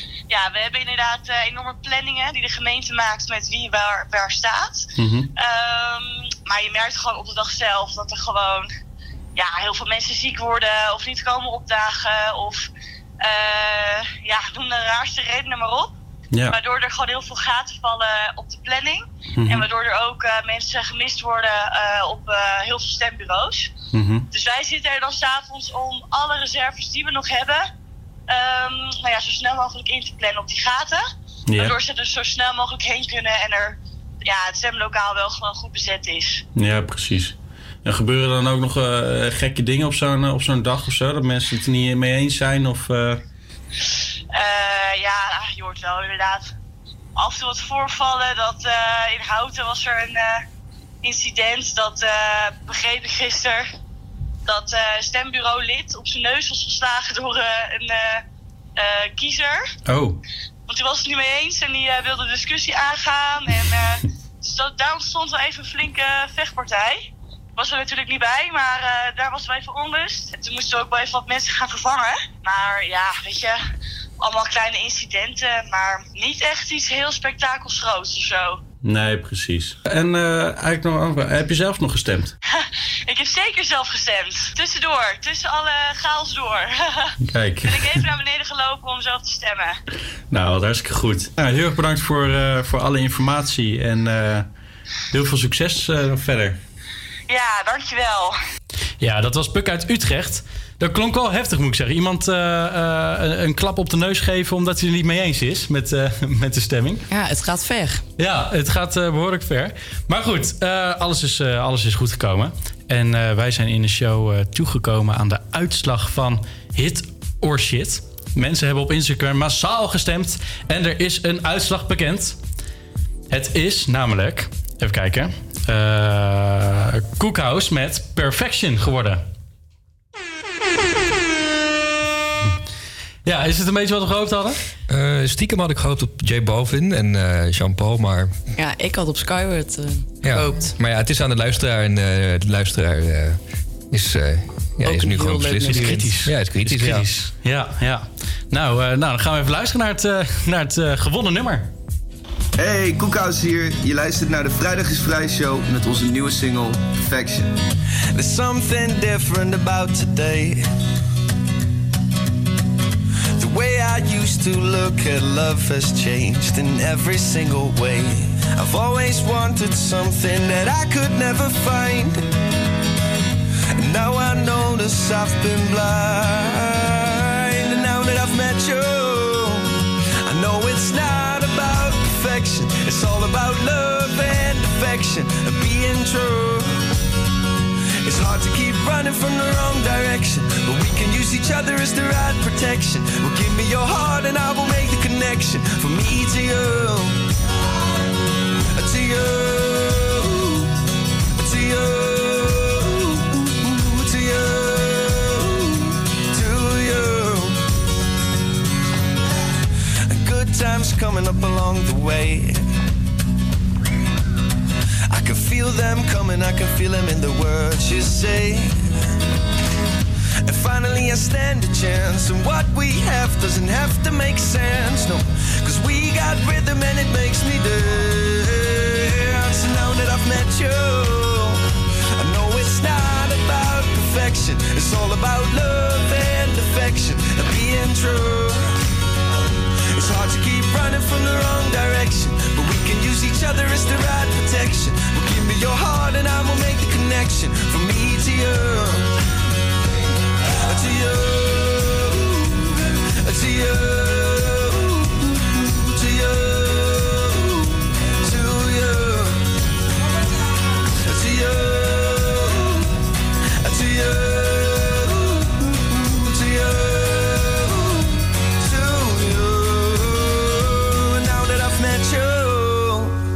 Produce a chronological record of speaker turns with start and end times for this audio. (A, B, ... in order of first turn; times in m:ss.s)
0:00.3-0:08.7 A
0:05.0-0:05.3 B
0:09.4-0:12.7 A
0:13.2-0:15.9 A
0:16.5-0:23.7 A
0:19.4-0:19.7 B
0:23.9-0:24.3 B
0:24.3-0:27.7 A
0:28.3-0:36.4 A
0:31.5-0:31.8 B
0:36.6-0:37.3 B
0:37.8-0:43.2 B
0:44.3-0:46.5 A
0:47.2-0:50.4 A
0:51.0-0:53.7 A
0:54.5-0:58.2 A
0:58.8-0:59.7 A
0:59.9-1:00.2 B
1:00.7-1:13.6 A
1:14.2-1:18.6 A
1:18.8-1:22.3 B
1:22.6-1:27.1 A
1:27.2-1:28.0 B
1:27.6-1:29.8 A
1:30.3-1:34.4 B
1:35.1-1:36.6 B
1:37.3-1:38.4 A
1:39.0-1:47.0 B
1:47.1-1:48.0 C
1:48.2-2:02.4 B
2:03.3-2:09.2 B
2:13.2-2:14.6 B
2:14.9-2:18.4 D
2:18.6-2:20.8 C
2:20.2-2:23.4 D
2:23.9-2:27.1 D
2:24.8-2:26.2 C
2:25.6-2:31.7 B
2:32.6-2:37.5 E
2:38.1-2:40.6 F
2:43.4-2:52.3 F
2:53.8-2:59.7 F
3:00.2-3:06.9 F
3:08.0-3:17.2 F
3:18.8-3:20.7 F
3:21.4-3:27.6 F
3:30.1-3:32.6 F
3:35.1-3:38.9 F
3:40.4-3:51.6 F
3:52.2-3:58.7 F
3:59.9-4:09.1 F
4:10.6-4:19.4 F
4:21.0-4:22.9 F
4:23.6-4:33.2 F